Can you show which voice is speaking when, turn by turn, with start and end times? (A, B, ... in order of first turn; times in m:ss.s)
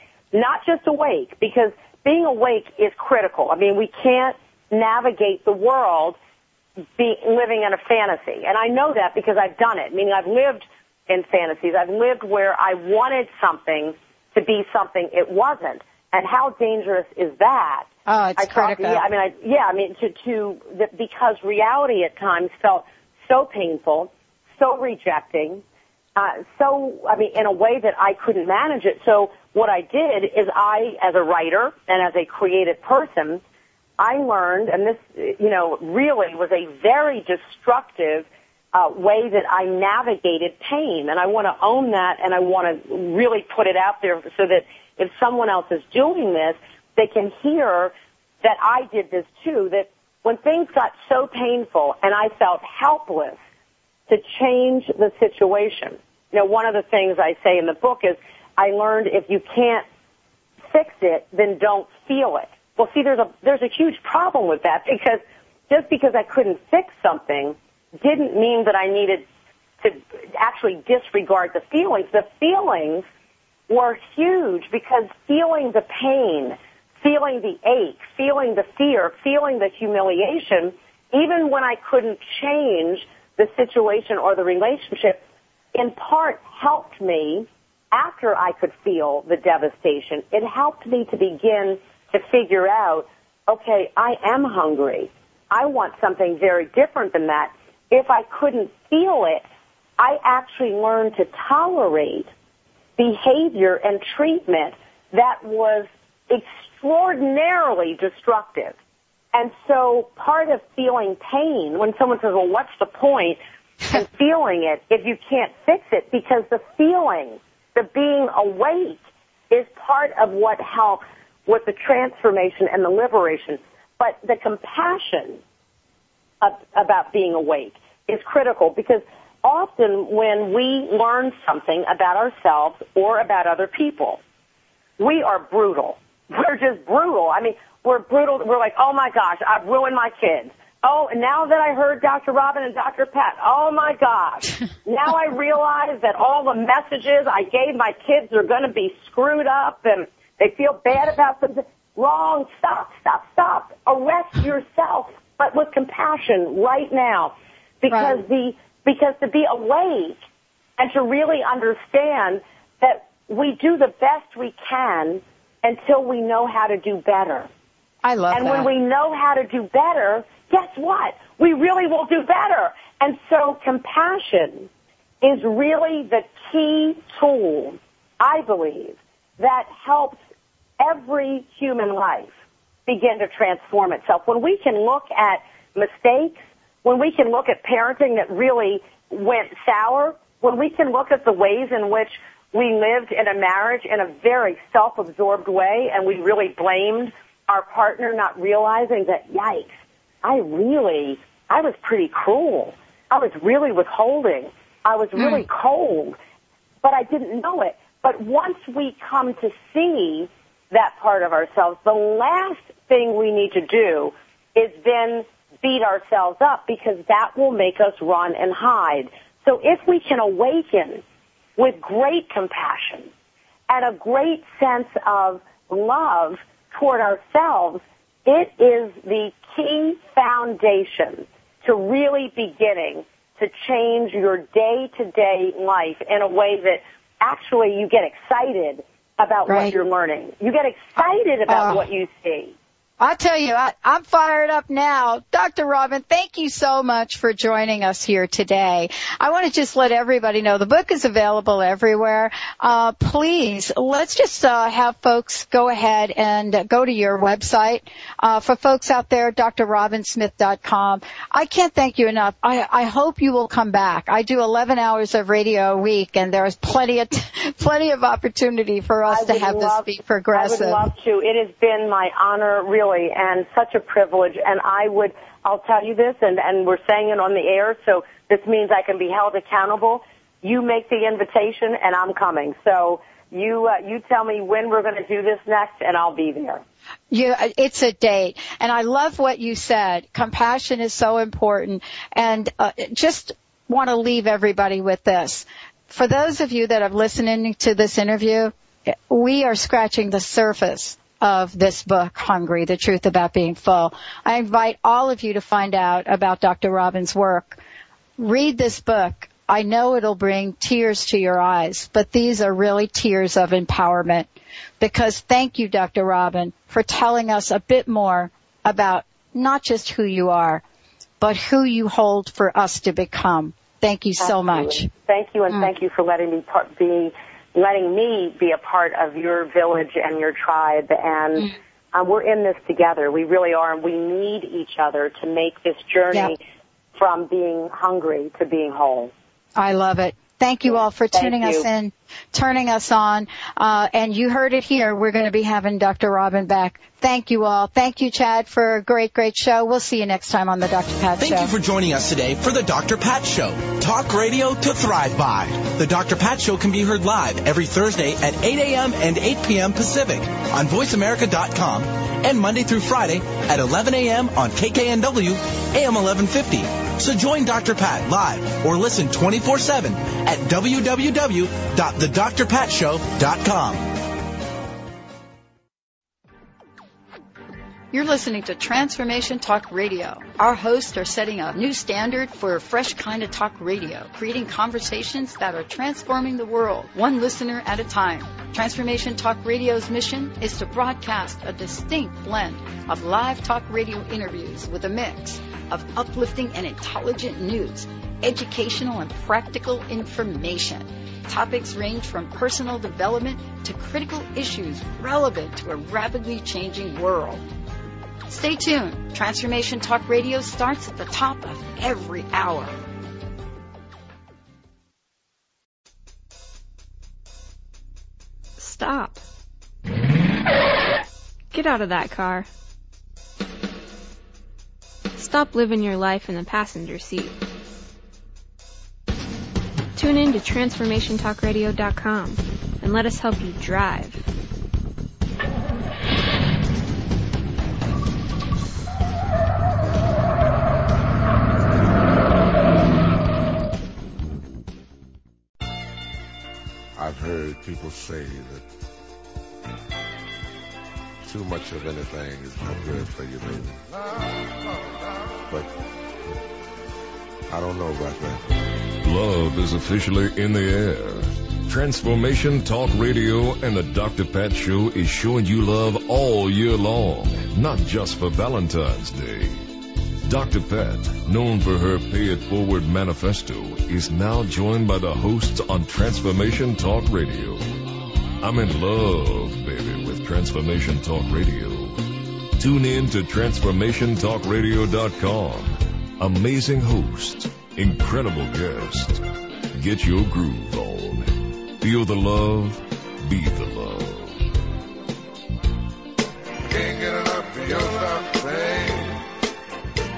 0:00.3-0:06.2 A
0:07.0-0:25.6 A
0:18.1-0:19.0 B
0:26.2-0:33.4 A
0:34.0-0:53.4 A
0:54.1-0:59.8 A
1:00.7-1:09.2 A
1:09.8-1:13.0 A
1:13.7-1:25.2 A
1:25.7-1:39.4 A
1:40.0-1:42.3 A
1:43.0-1:48.8 A
1:49.3-1:53.4 A
1:53.9-1:59.0 A
1:59.5-2:05.4 A
2:06.4-2:14.2 A
2:15.0-2:40.2 A
2:37.9-2:38.2 B
2:40.8-2:47.5 A
2:48.0-2:48.7 B
2:48.3-2:54.7 A
2:55.2-3:00.2 A
3:00.8-3:02.3 A
3:02.9-3:26.2 A
3:25.2-3:25.4 B
3:26.8-3:41.0 A
3:41.6-3:43.1 A
3:43.7-4:02.5 A
3:59.5-3:59.7 B
4:01.5-4:01.8 B
4:03.0-4:30.8 B
4:29.1-4:46.6 A
4:47.1-5:07.6 B
5:08.2-5:14.3 B
5:14.8-5:20.6 B
5:21.2-5:24.9 B
5:24.2-5:36.4 A
5:37.0-5:39.1 A
5:39.6-5:51.5 B
5:41.1-5:41.6 A
5:51.2-6:13.9 C
6:17.9-6:47.4 B
6:48.3-6:52.7 B
6:58.6-6:59.2 D
7:01.5-7:02.5 D
7:05.1-7:07.4 D
7:09.9-7:14.2 D
7:27.0-7:28.6 E
7:31.2-7:35.7 E
7:37.5-7:38.5 E
7:39.0-7:49.6 F
7:50.2-7:57.6 F
7:58.4-8:02.0 F
8:02.6-8:09.2 F
8:09.7-8:14.4 F
8:16.6-8:19.2 E